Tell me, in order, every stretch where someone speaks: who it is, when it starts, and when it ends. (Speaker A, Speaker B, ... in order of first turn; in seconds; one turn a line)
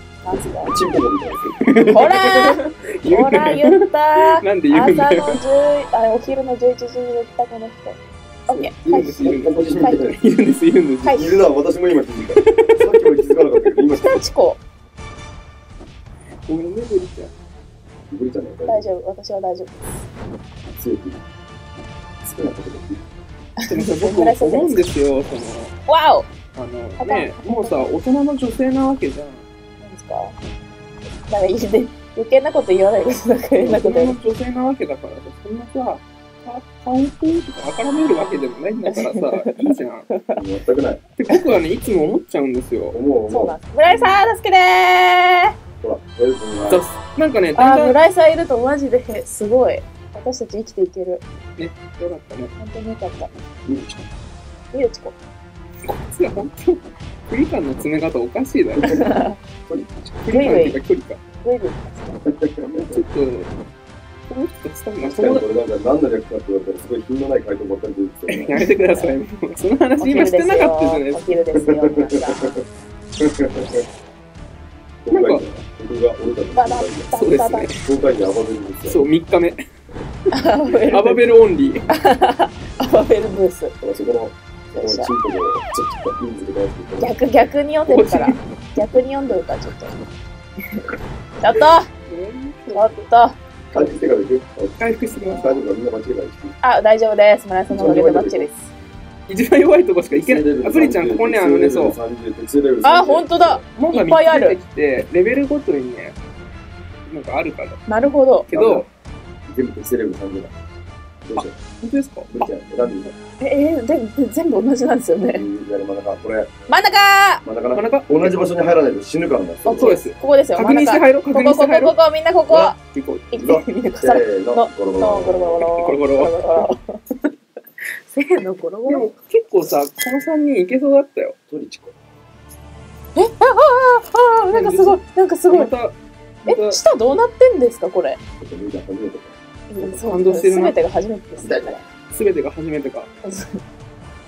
Speaker A: 0.2-0.8
Speaker B: 0.6-1.6
Speaker C: 1.4-5.4
Speaker A: 1.8-10.2
Speaker C: 8.5-11.2
Speaker B: 8.9-10.2
Speaker A: 11.0-11.4
Speaker B: 11.1-14.2
Speaker C: 12.3-13.4
Speaker A: 13.8-14.6
Speaker C: 16.5-17.3
Speaker B: 18.1-18.9
Speaker A: 18.7-20.1
Speaker B: 20.8-21.2
Speaker B: 22.2-23.1
Speaker A: 23.6-24.9
Speaker C: 23.6-25.7
Speaker A: 25.9-26.3
Speaker C: 26.5-29.4
Speaker A: 27.0-27.9
Speaker A: 29.8-30.4
Speaker A: 31.3-34.1
Speaker C: 33.6-40.1
Speaker A: 38.9-39.5
Speaker A: 40.1-40.4
Speaker B: 40.3-41.0
Speaker C: 41.2-43.0
Speaker B: 42.9-43.5
Speaker A: 43.3-45.5
Speaker C: 43.9-44.2
Speaker B: 45.8-46.8
Speaker C: 46.7-48.0
Speaker A: 47.5-51.2
Speaker C: 51.6-52.5
Speaker A: 52.6-53.3
Speaker B: 53.6-54.0
Speaker A: 54.7-55.1
Speaker C: 55.8-59.1
Speaker A: 58.8-59.4
Speaker C: 60.0-61.2
Speaker A: 60.3-60.8
Speaker A: 61.4-62.3
Speaker B: 62.2-63.0
Speaker C: 62.6-63.5
Speaker C: 64.3-65.4
Speaker B: 65.0-68.5
Speaker C: 68.3-71.2
Speaker A: 68.5-69.2
Speaker A: 70.0-72.6
Speaker B: 71.5-72.6
Speaker B: 73.2-73.8
Speaker B: 75.0-77.1
Speaker C: 75.1-75.5
Speaker A: 76.5-77.7
Speaker C: 77.1-77.8
Speaker B: 77.8-79.0
Speaker C: 78.9-79.6
Speaker A: 80.3-81.2
Speaker C: 80.7-81.9
Speaker A: 81.9-83.8
Speaker B: 83.8-87.1
Speaker A: 84.7-85.1
Speaker A: 87.0-89.9
Speaker C: 87.9-88.4
Speaker A: 91.4-91.9
Speaker C: 91.6-93.0
Speaker A: 92.7-93.4
Speaker B: 93.7-96.6
Speaker C: 94.8-95.6
Speaker A: 96.6-98.7
Speaker B: 97.7-98.5
Speaker C: 99.3-102.0
Speaker B: 100.1-103.6
Speaker A: 102.8-104.6
Speaker C: 103.7-106.2
Speaker C: 107.1-107.8
Speaker A: 107.9-108.5
Speaker C: 108.5-108.8
Speaker B: 108.5-108.9
Speaker B: 109.5-110.5
Speaker B: 111.2-111.5
Speaker C: 111.3-112.5
Speaker B: 112.3-113.1
Speaker A: 113.4-115.4
Speaker B: 115.3-116.5
Speaker A: 116.7-117.4
Speaker B: 117.4-120.0
Speaker C: 117.7-118.4
Speaker A: 119.7-122.8
Speaker C: 119.7-121.9
Speaker B: 122.5-122.7
Speaker C: 122.7-123.3
Speaker A: 123.3-127.3
Speaker B: 123.3-125.7
Speaker C: 125.7-126.7
Speaker A: 128.1-129.1
Speaker C: 128.9-131.3
Speaker B: 131.5-131.9
Speaker A: 133.1-135.7
Speaker C: 134.5-136.8
Speaker A: 136.4-138.2
Speaker B: 138.4-139.4
Speaker A: 139.7-141.8
Speaker C: 139.8-140.8
Speaker B: 141.4-141.8
Speaker C: 142.1-143.1
Speaker A: 143.2-143.6